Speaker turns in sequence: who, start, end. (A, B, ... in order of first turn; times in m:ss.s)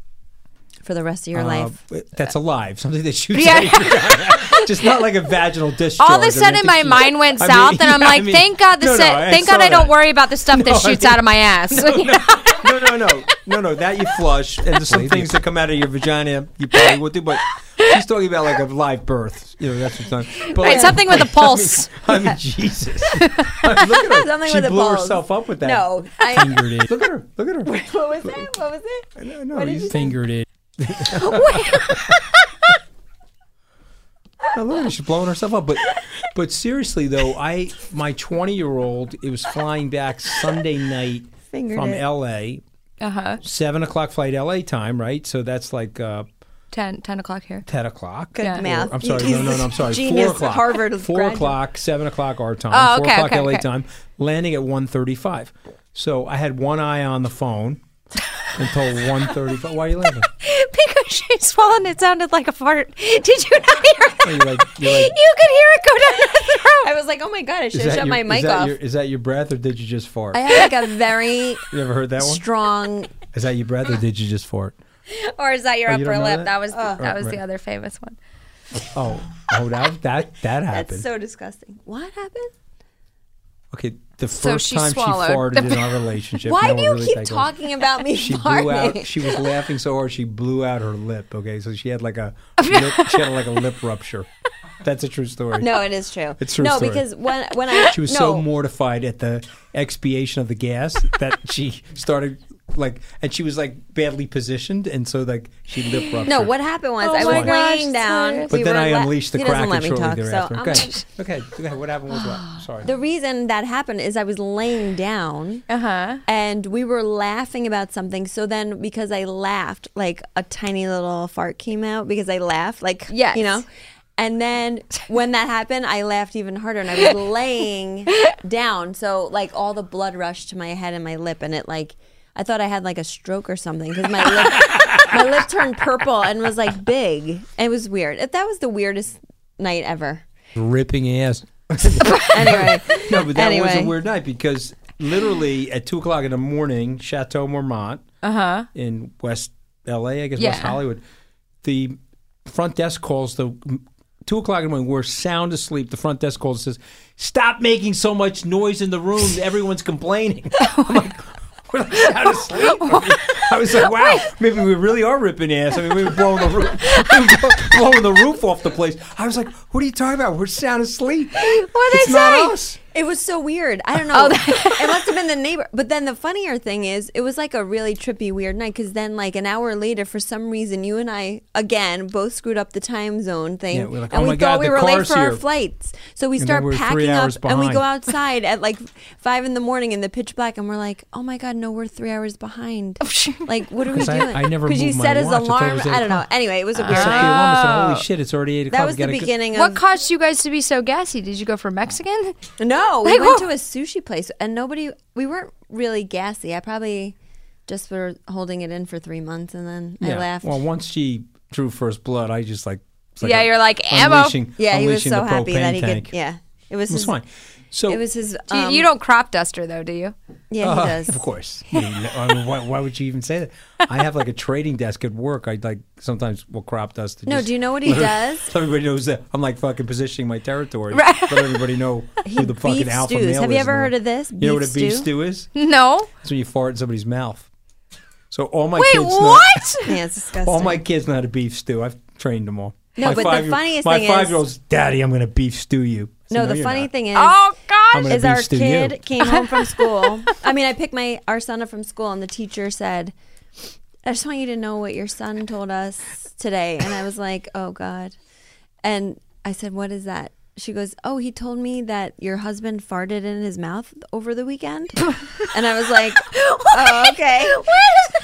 0:00.8-0:01.7 A
0:01.3-0:28.4 B
0:03.3-0:04.7 C
0:06.0-0:12.9 C
0:20.5-0:22.1 C
0:20.6-0:21.1 A
0:23.2-0:23.6 C
0:23.8-0:26.8 A
0:27.6-0:30.2 A
0:29.2-0:32.1 B
0:31.2-0:32.1 C
0:34.5-0:42.6 B
0:41.5-0:42.0 A
0:43.0-0:43.4 C
0:43.4-0:46.2 B
0:46.7-0:47.6 C
0:47.6-0:57.8 B
0:48.4-0:51.6 A
0:52.7-0:53.6 C
0:58.5-1:00.3 B
1:00.4-1:06.9 C
1:04.2-1:05.1 B
1:06.8-1:08.8 A
1:07.7-1:10.5 B
1:10.3-1:13.1 A
1:11.7-1:12.4 B
1:13.3-1:14.8 B
1:15.1-1:18.2 C
1:15.9-1:17.4 B
1:16.7-1:17.0 A
1:18.9-1:21.1 B
1:20.7-1:22.5 A
1:23.7-1:27.5 B
1:24.3-1:25.9 C
1:26.4-1:29.4 A
1:28.1-1:34.3 B
1:32.6-1:33.2 C
1:34.8-1:35.8 B
1:35.6-1:38.4 A
1:36.4-1:37.0 B
1:37.9-1:46.5 B
1:46.2-1:50.9 A
1:47.0-1:48.5 C
1:47.2-1:47.5 B
1:48.5-1:52.9 B
1:52.2-1:52.6 C
1:52.8-1:55.6 A
1:55.7-1:56.2 C
1:56.2-2:20.2 A
2:03.1-2:03.6 C
2:20.6-2:28.0 B
2:22.1-2:23.9 A
2:28.2-2:28.7 C
2:28.7-2:31.0 B
2:30.4-2:30.8 C
2:31.6-2:52.8 B
2:40.6-2:40.9 C
2:42.7-2:43.4 C
2:51.4-2:52.5 C
2:52.9-3:17.3 A
2:54.1-2:55.1 C
3:03.7-3:05.4 B
3:06.4-3:07.8 B
3:13.0-3:13.5 C
3:13.9-3:16.3 B
3:16.8-3:18.0 C
3:16.8-3:19.3 B
3:18.7-3:19.8 A
3:19.5-3:22.4 C
3:22.6-3:27.2 A
3:23.0-3:23.5 C
3:27.7-3:30.5 A
3:30.0-3:36.1 B
3:33.2-3:34.4 C
3:34.6-3:37.1 A
3:36.9-3:38.0 B
3:37.9-3:38.9 A
3:38.5-3:40.1 C
3:40.5-3:41.2 A
3:40.6-3:55.5 B
3:47.2-3:48.5 A
3:50.9-3:51.5 C
3:52.2-3:55.1 A
3:55.6-3:56.1 C
3:56.2-3:57.5 B
3:58.3-3:59.8 B
3:58.8-3:59.9 C
3:59.8-4:00.8 A
4:00.4-4:06.9 B
4:03.0-4:04.4 A
4:06.3-4:07.4 A
4:07.2-4:08.2 C
4:07.9-4:09.0 B
4:08.1-4:13.1 A
4:09.2-4:10.3 C
4:14.0-4:18.1 A
4:18.8-4:27.8 A
4:26.3-4:28.1 C